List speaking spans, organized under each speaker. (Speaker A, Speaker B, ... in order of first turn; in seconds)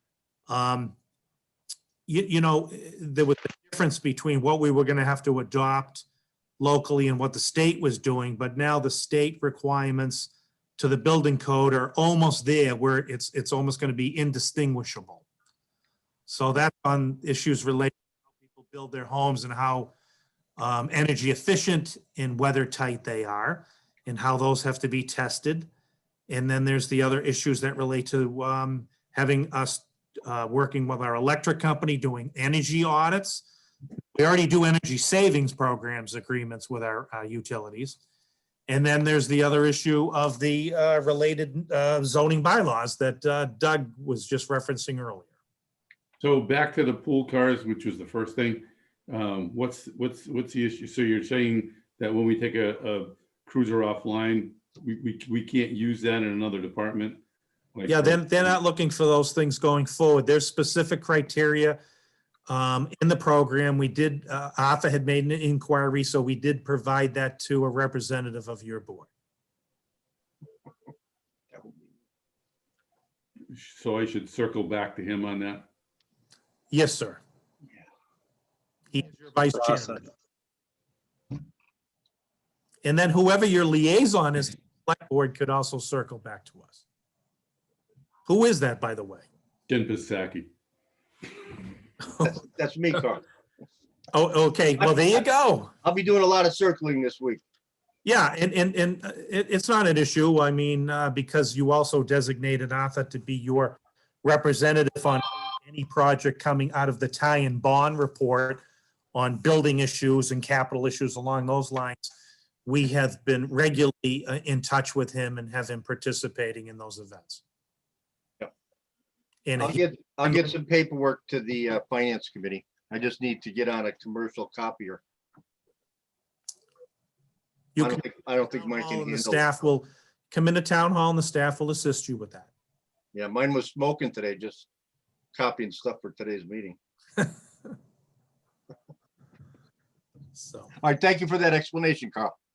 Speaker A: 0.5-0.9, 2.1-6.0, 6.6-15.2, 16.3-19.9, 20.6-25.7, 26.3-33.4, 34.1-38.0, 38.7-45.3, 57.9-61.8, 62.5-69.1, 76.7-77.2, 78.9-80.0, 82.8-86.8, 88.2-89.2, 94.1-95.7, 98.0-108.6, 109.1-112.1, 112.7-117.4, 119.5-120.5, 127.8-132.5, 140.4-140.7
Speaker B: 46.2-57.2, 57.7-58.5, 73.5-75.7, 89.7-90.5
Speaker C: 92.2-93.2, 95.8-97.4, 119.6-125.0, 127.8-129.4, 133.1-134.7, 135.3-136.8, 140.8-142.3